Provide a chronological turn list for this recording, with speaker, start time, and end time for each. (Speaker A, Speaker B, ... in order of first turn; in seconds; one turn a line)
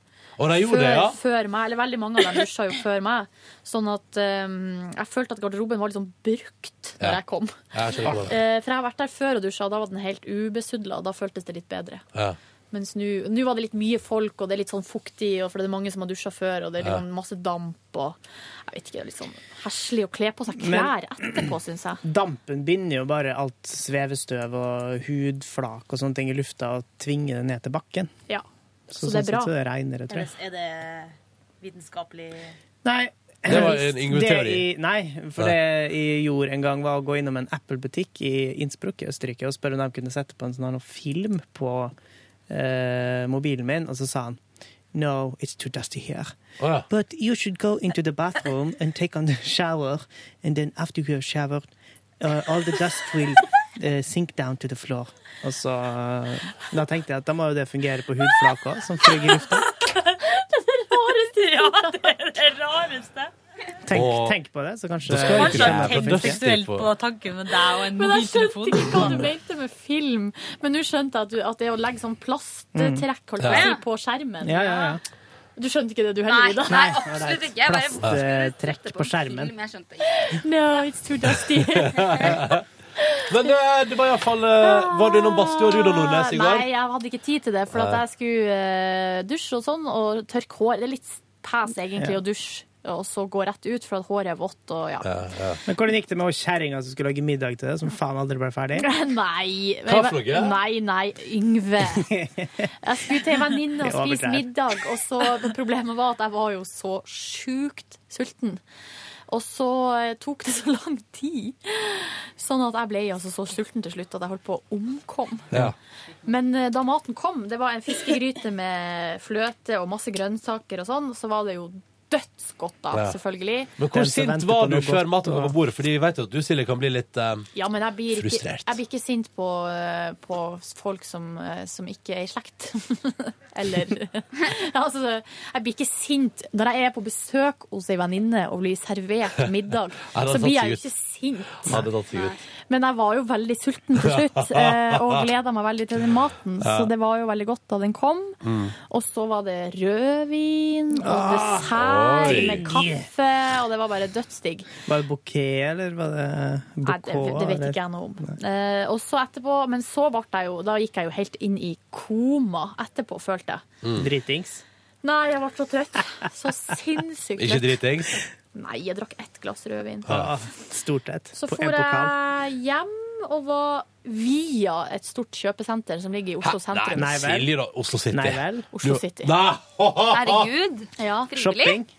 Speaker A: 0.4-1.2
Speaker B: 0.6-12.0
Speaker A: 7.7-8.4
Speaker B: 12.7-18.2
Speaker B: 18.7-22.0
Speaker C: 20.6-21.4
Speaker C: 22.0-28.1
Speaker B: 28.3-29.5
Speaker C: 28.9-30.3
Speaker D: 30.1-32.5
Speaker C: 32.8-41.9
Speaker A: 33.5-34.7
Speaker C: 42.5-44.4
Speaker C: 44.9-46.3
Speaker A: 46.6-46.9
Speaker C: 46.9-51.7
Speaker C: 52.2-59.7
Speaker B: 60.2-62.1
Speaker D: 61.1-63.3
Speaker C: 63.8-66.5
Speaker A: 63.9-64.3
Speaker A: 65.1-66.9
Speaker D: 65.2-69.3
Speaker B: 68.0-75.0
Speaker C: 72.7-73.0
Speaker A: 73.4-73.7
Speaker E: 73.5-73.8
Speaker C: 74.4-75.0
Speaker B: 75.6-76.9
Speaker E: 76.3-80.3
Speaker C: 76.7-79.5
Speaker B: 80.2-82.5
Speaker A: 81.7-82.6
Speaker A: 83.3-86.7
Speaker B: 84.6-95.1
Speaker A: 87.7-88.0
Speaker A: 95.0-95.6
Speaker C: 95.7-98.9
Speaker B: 98.8-102.1
Speaker A: 99.9-100.6
Speaker C: 102.0-102.7
Speaker B: 102.8-108.6
Speaker C: 103.8-104.5
Speaker B: 109.3-115.7
Speaker B: 116.2-123.7
Speaker A: 122.9-123.2
Speaker A: 123.8-127.5
Speaker C: 123.9-125.5
Speaker B: 127.5-141.8
Speaker A: 128.1-128.8
Speaker A: 140.1-140.8
Speaker A: 141.6-142.4
Speaker E: 142.1-142.4
Speaker B: 142.7-154.7
Speaker A: 144.0-145.2
Speaker A: 146.6-146.9
Speaker A: 148.4-148.7
Speaker C: 150.9-153.1
Speaker A: 151.8-152.6
Speaker C: 154.8-158.3
Speaker B: 156.8-163.6
Speaker A: 163.8-164.1
Speaker C: 164.0-164.6
Speaker B: 165.0-167.8
Speaker A: 167.4-168.2
Speaker B: 168.5-170.1
Speaker C: 170.1-172.1
Speaker B: 171.3-177.2
Speaker A: 176.4-180.5
Speaker C: 176.9-177.5
Speaker C: 178.1-178.7
Speaker B: 178.7-179.3
Speaker E: 180.1-181.8
Speaker B: 181.0-181.3
Speaker C: 181.3-181.9